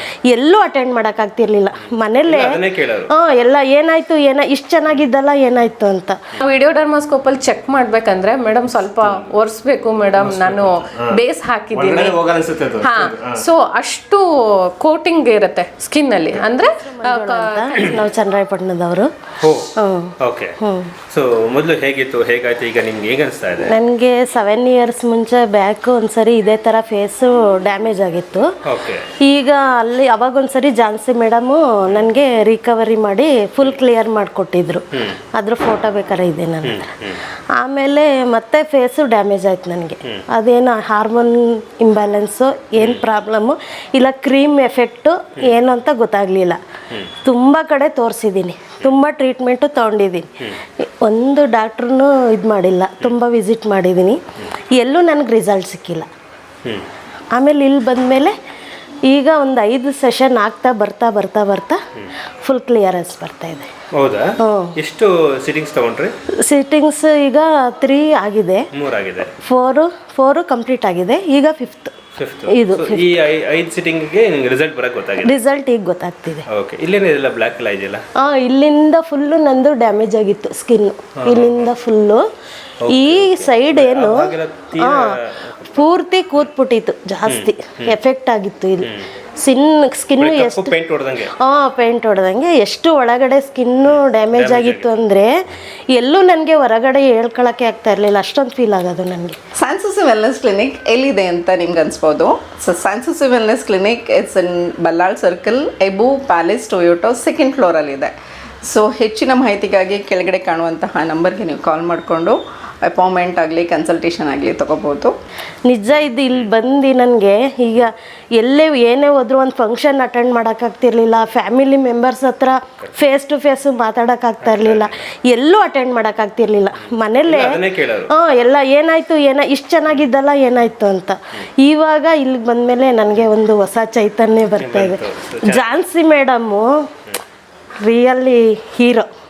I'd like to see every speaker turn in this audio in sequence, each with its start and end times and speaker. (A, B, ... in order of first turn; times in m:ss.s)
0:00.3-0:06.2 A
0:02.2-0:03.1 B
0:06.4-0:12.2 C
0:09.0-0:09.3 B
0:10.2-0:11.2 B
0:11.7-0:13.4 B
0:12.8-0:18.0 C
0:16.4-0:19.1 A
0:19.4-0:20.6 B
0:19.8-0:20.9 A
0:21.1-0:23.7 B
0:23.6-0:28.5 A
0:28.6-0:29.1 B
0:29.2-0:36.9 A
0:36.6-0:37.2 B
0:37.6-0:46.6 A
0:42.8-0:43.0 B
0:47.2-0:54.2 A
0:54.8-0:56.1 A
0:57.4-0:58.4 A
0:59.1-1:01.8 A
1:02.4-1:03.7 A
1:04.0-1:06.1 B
1:04.4-1:04.8 A
1:06.4-1:08.7 A
1:08.7-1:09.3 B
1:09.4-1:12.0 A
1:12.2-1:15.4 B
1:12.5-1:13.1 A
1:15.2-1:16.4 A
1:16.5-1:18.0 B
1:18.2-1:22.2 A
1:21.2-1:21.7 B
1:22.8-1:25.9 B
1:22.9-1:30.8 A
1:27.3-1:28.0 B
1:28.8-1:29.1 B
1:30.2-1:31.3 B
1:31.4-1:35.3 A
1:33.9-1:34.9 B
1:35.9-1:39.4 A
1:39.6-1:55.1 D
1:55.7-2:16.9 A
2:04.4-2:05.0 B
2:06.8-2:08.1 B
2:14.6-2:15.8 B
2:17.8-2:19.1 A